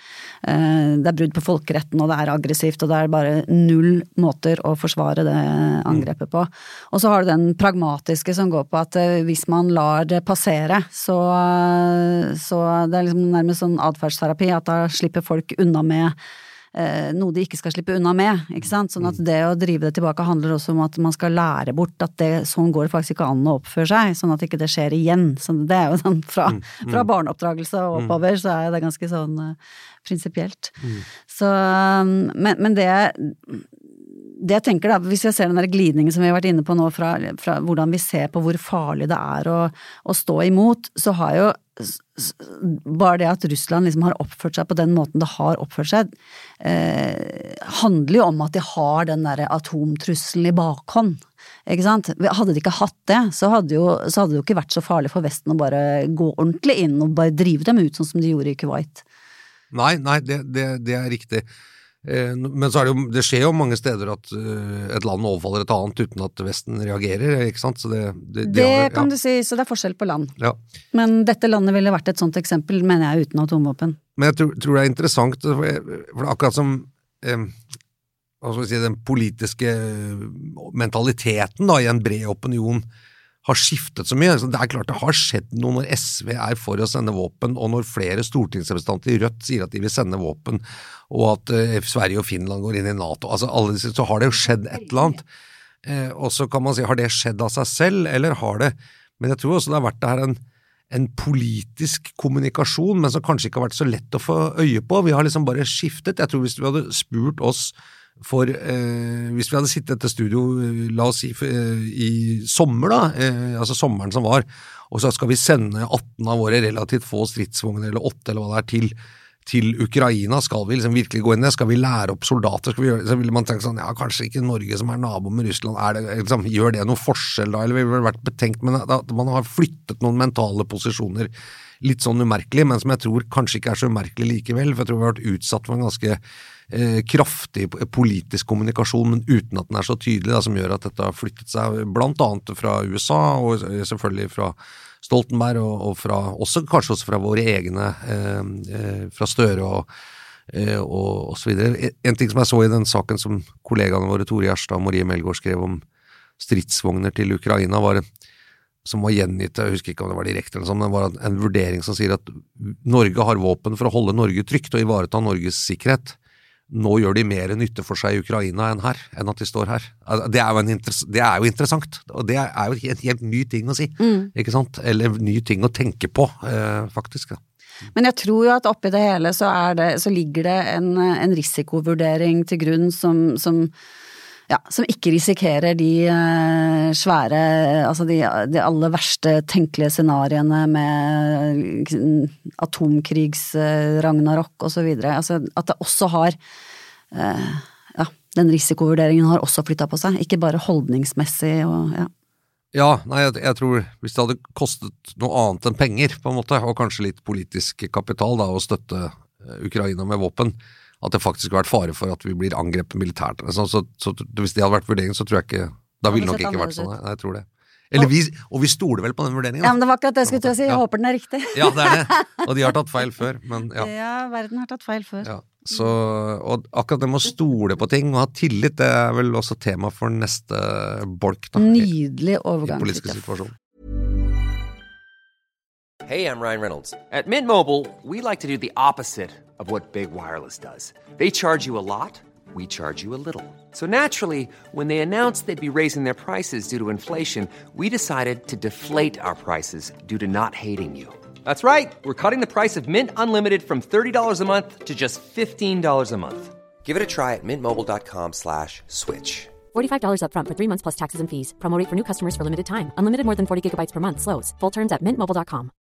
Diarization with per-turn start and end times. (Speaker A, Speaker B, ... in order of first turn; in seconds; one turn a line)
Speaker A: 0.4-16.2
Speaker A: 16.7-59.0
Speaker B: 26.5-27.1
Speaker B: 59.7-61.5
Speaker B: 62.0-69.1
Speaker A: 68.4-70.3
Speaker A: 70.9-74.0
Speaker B: 74.2-77.6
Speaker B: 78.4-82.8
Speaker B: 83.4-95.2
Speaker A: 94.7-95.2
Speaker B: 95.8-100.4
Speaker B: 100.9-118.9
Speaker B: 119.5-131.3
Speaker B: 131.8-136.2
Speaker B: 136.7-149.9
Speaker B: 150.5-155.8
Speaker B: 156.4-158.0
Speaker B: 158.8-166.2
Speaker B: 166.7-177.4
Speaker A: 174.0-174.3
Speaker A: 177.9-183.7
Speaker A: 184.5-196.4
Speaker A: 197.1-202.1
Speaker B: 202.7-220.8
Speaker A: 216.1-216.9
Speaker A: 219.6-222.5
Speaker B: 221.5-223.9
Speaker A: 223.8-225.8
Speaker B: 225.2-231.9
Speaker A: 231.6-233.4
Speaker B: 232.6-233.6
Speaker C: 236.1-259.5
Speaker D: 259.7-265.7